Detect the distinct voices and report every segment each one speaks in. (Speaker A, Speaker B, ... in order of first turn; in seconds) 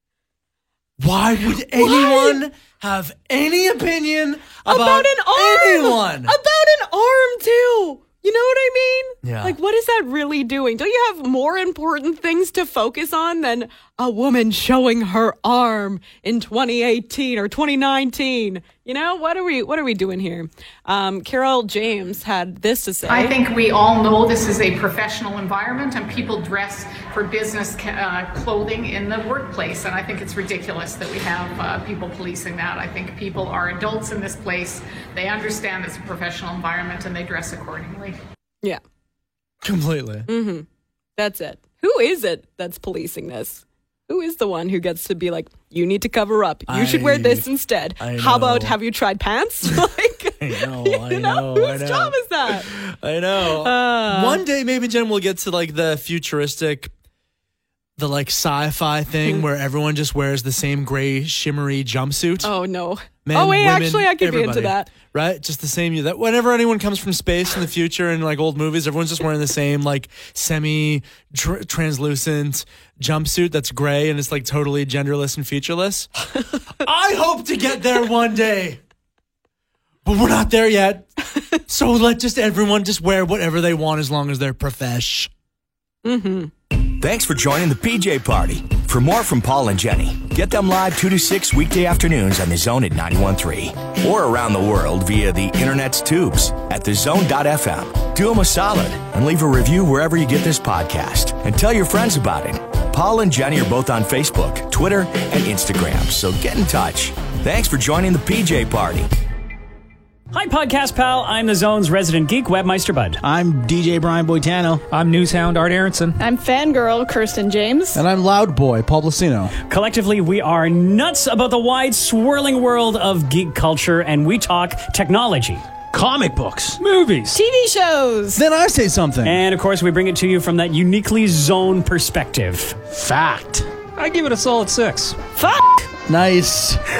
Speaker A: 1.0-6.3, 9.2-9.6, 39.6-40.3, 46.7-48.8, 50.4-56.9, 58.0-62.5, 63.2-76.1, 76.8-78.8, 80.0-81.1, 81.6-85.3, 117.9-119.5, 128.3-129.4, 136.1-136.8
Speaker B: 1.7-2.4, 4.6-23.3, 40.3-40.6, 41.2-52.7, 53.6-54.4, 62.4-64.9, 86.0-86.5
Speaker C: 23.1-38.2
Speaker D: 86.7-109.1
Speaker E: 110.3-113.2, 114.9-116.0, 119.7-125.8, 126.8-127.3, 129.2-132.9, 134.0-135.8
Speaker F: 113.2-114.8, 115.8-116.2, 125.9-126.8, 132.9-133.7
Speaker G: 116.2-118.0, 127.3-128.4